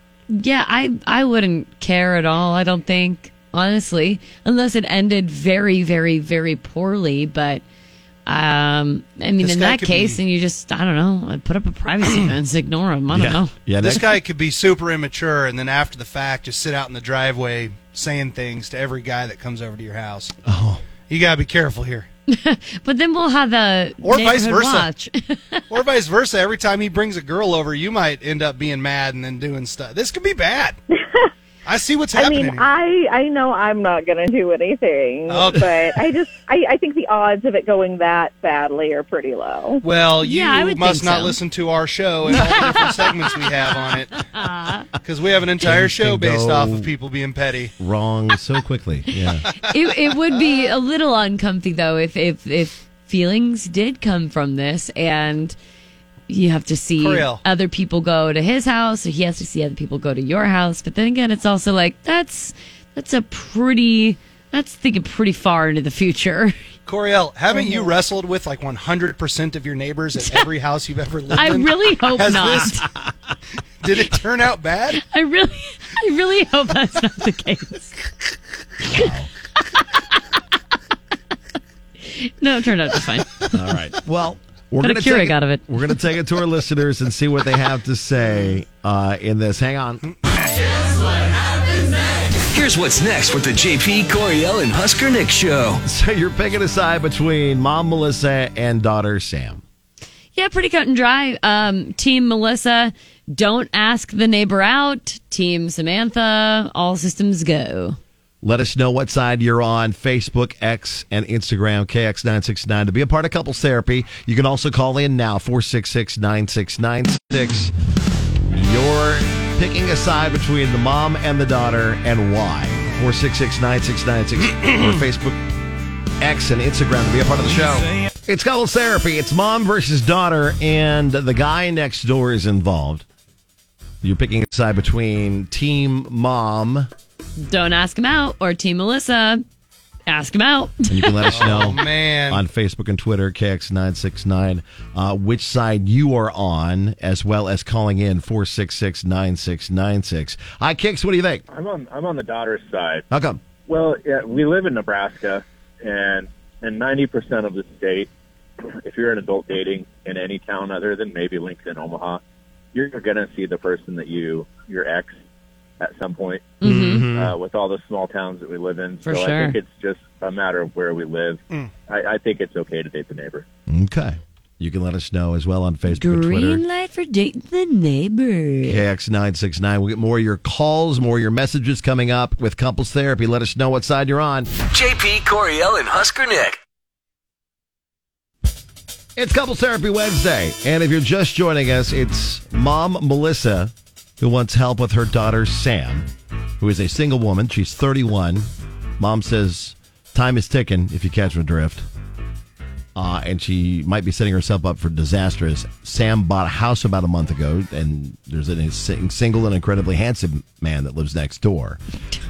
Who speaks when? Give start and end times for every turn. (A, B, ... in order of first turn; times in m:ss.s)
0:00.3-0:07.6 A
0:08.2-0:13.5 A
0:09.4-0:10.2 B
0:13.1-0:14.2 C
0:13.8-0:20.3 B
0:20.4-0:20.8 C
0:21.1-0:22.1 B
0:22.3-0:25.6 A
0:24.0-0:24.9 B
0:25.7-0:30.8 B
0:31.6-0:32.7 B
0:32.1-0:39.8 D
0:35.3-0:36.0 B
0:39.8-0:44.2 B
0:40.2-0:41.4 A
0:42.3-0:42.9 A
0:43.8-0:44.9 A
0:45.0-0:47.7 B
0:45.6-0:46.9 C
0:47.8-0:49.5 C
0:49.5-0:55.6 A
0:56.3-1:06.5 A
0:57.0-0:57.4 B
1:06.8-1:12.8 B
1:11.3-1:12.8 A
1:13.8-1:15.0 B
1:15.0-1:18.0 A
1:18.9-1:19.3 C
1:19.8-1:20.0 A
1:22.0-1:23.5 A
1:23.5-1:30.0 C
1:24.8-1:25.7 A
1:32.5-1:35.8 E
1:35.8-1:39.6 C
1:40.3-1:48.0 A
1:48.4-1:57.7 C
1:58.4-2:05.4 C
2:06.2-2:13.0 C
2:14.0-2:16.9 C
2:17.4-2:19.4 A
2:20.1-2:21.3 A
2:20.9-2:31.4 C
2:21.3-2:22.4 B
2:31.5-2:33.0 F
2:33.1-2:33.4 C
2:33.7-2:38.1 F
2:38.8-2:42.2 F
2:42.7-2:45.2 F
2:45.8-2:53.4 F
2:46.6-2:47.1 A
2:46.6-2:47.4 C
2:49.0-2:49.6 A
2:53.7-2:56.6 C
2:55.9-2:58.8 A
2:58.6-3:04.5 C
3:04.5-3:06.6 E
3:09.2-3:16.1 C
3:16.6-3:18.5 C
3:19.0-3:21.9 C
3:22.9-3:31.8 C